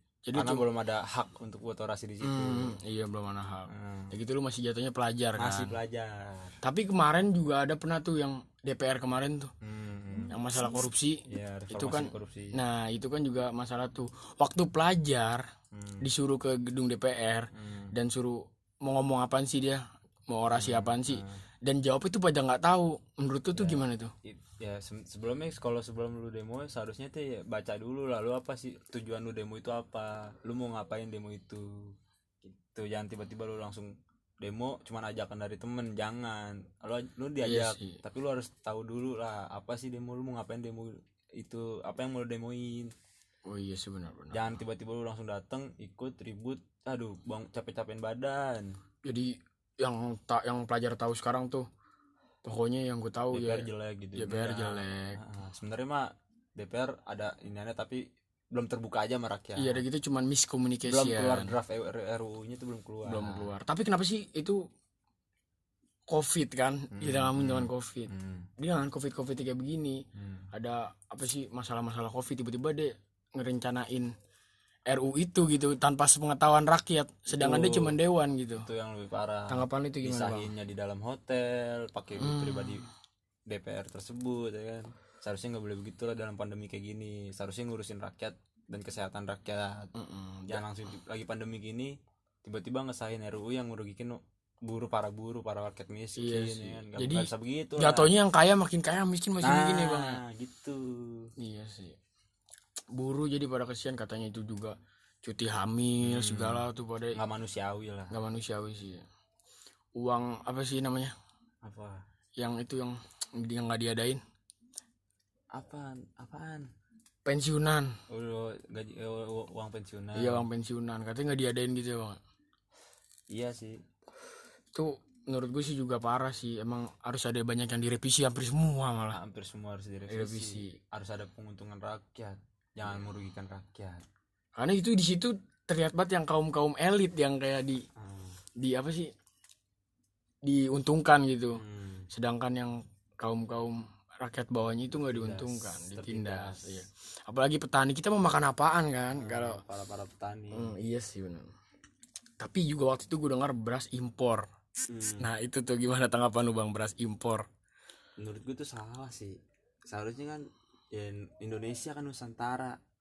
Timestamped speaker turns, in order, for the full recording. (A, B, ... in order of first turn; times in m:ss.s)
0:00.2-0:00.6 A
0:00.3-0:02.8 B
0:02.2-0:05.8 A
0:03.7-0:04.1 B
0:05.4-0:06.5 B
0:06.6-0:09.5 A
0:09.6-0:10.4 B
0:10.3-0:15.4 A
0:11.3-0:12.6 B
0:15.7-0:16.0 B
0:16.0-0:24.1 A
0:17.5-0:17.9 B
0:20.5-0:21.4 B
0:23.5-0:31.7 B
0:32.4-0:42.9 B
0:37.4-0:38.0 A
0:43.4-0:44.6 A
0:44.3-0:48.7 B
0:49.0-0:51.6 A
0:52.4-0:55.2 A
0:53.3-0:58.0 B
0:58.5-0:59.8 B
0:59.6-1:01.6 A
1:00.8-1:03.5 B
1:03.0-1:04.6 A
1:06.1-1:14.1 A
1:06.9-1:08.5 B
1:10.2-1:10.5 B
1:14.9-1:18.7 A
1:17.3-1:18.0 B
1:18.6-1:22.8 B
1:19.5-1:20.5 A
1:22.2-1:22.8 A
1:23.5-1:29.9 B
1:30.0-1:30.6 A
1:30.5-1:38.0 B
1:36.2-1:40.2 A
1:39.4-1:41.3 B
1:41.4-1:42.0 A
1:42.9-1:47.2 A
1:46.0-1:46.6 B
1:47.1-1:48.1 B
1:48.1-1:49.0 A
1:50.0-1:51.1 A
1:51.6-1:52.0 B
1:52.4-1:54.2 A
1:55.5-1:56.7 B
1:57.2-1:58.0 A
1:58.1-2:00.4 B
2:00.1-2:02.2 A
2:03.3-2:03.8 B
2:04.7-2:09.2 A
2:09.1-2:14.0 B
2:10.1-2:10.8 A
2:14.6-2:17.8 A
2:18.0-2:18.4 B
2:18.6-2:19.1 A
2:20.4-2:29.6 A
2:21.6-2:22.1 B
2:24.9-2:26.8 B
2:29.1-2:30.7 B
2:30.5-2:31.5 A
2:32.4-2:34.4 A
2:34.9-2:35.2 B
2:35.2-2:37.4 A
2:38.2-2:39.4 B
2:39.9-2:40.4 B
2:40.9-2:42.8 B